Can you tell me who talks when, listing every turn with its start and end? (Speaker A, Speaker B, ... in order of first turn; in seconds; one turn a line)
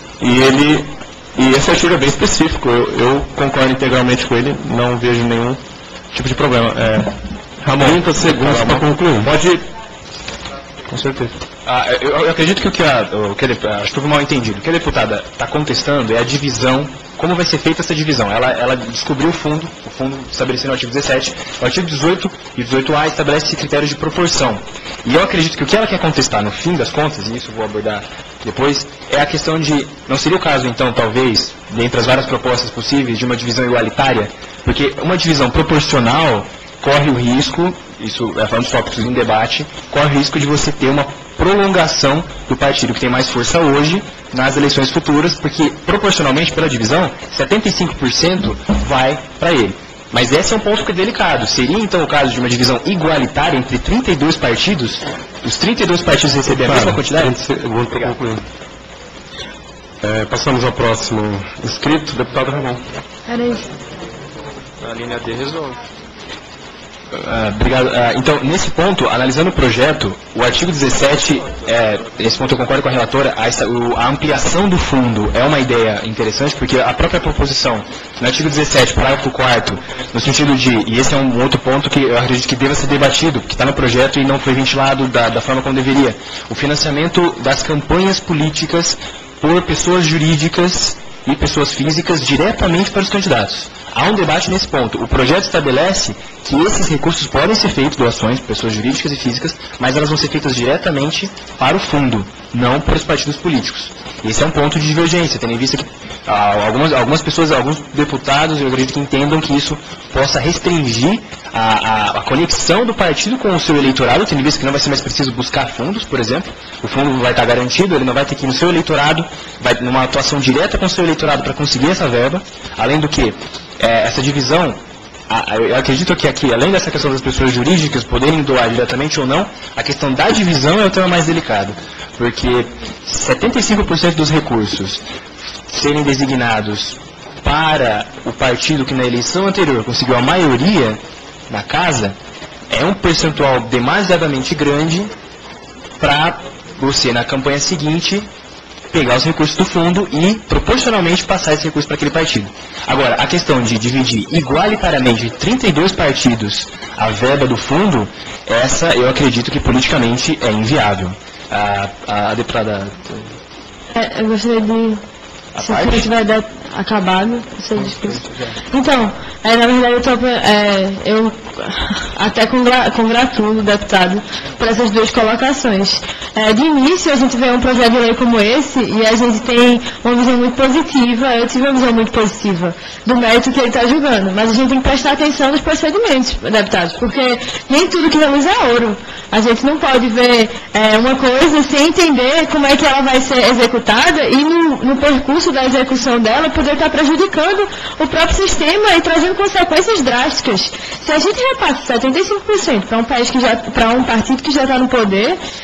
Speaker A: 0.2-5.6
Speaker A: 6.1-9.6
Speaker B: 7.8-9.3
Speaker A: 10.9-11.3
Speaker C: 11.6-57.4
Speaker B: 56.5-58.4
Speaker B: 60.0-62.8
Speaker C: 67.1-135.0
Speaker C: 135.7-142.2
Speaker C: 142.7-145.1
Speaker C: 146.0-148.3
Speaker C: 148.9-163.3
Speaker D: 163.9-165.0
Speaker C: 165.6-166.1
Speaker D: 165.6-205.4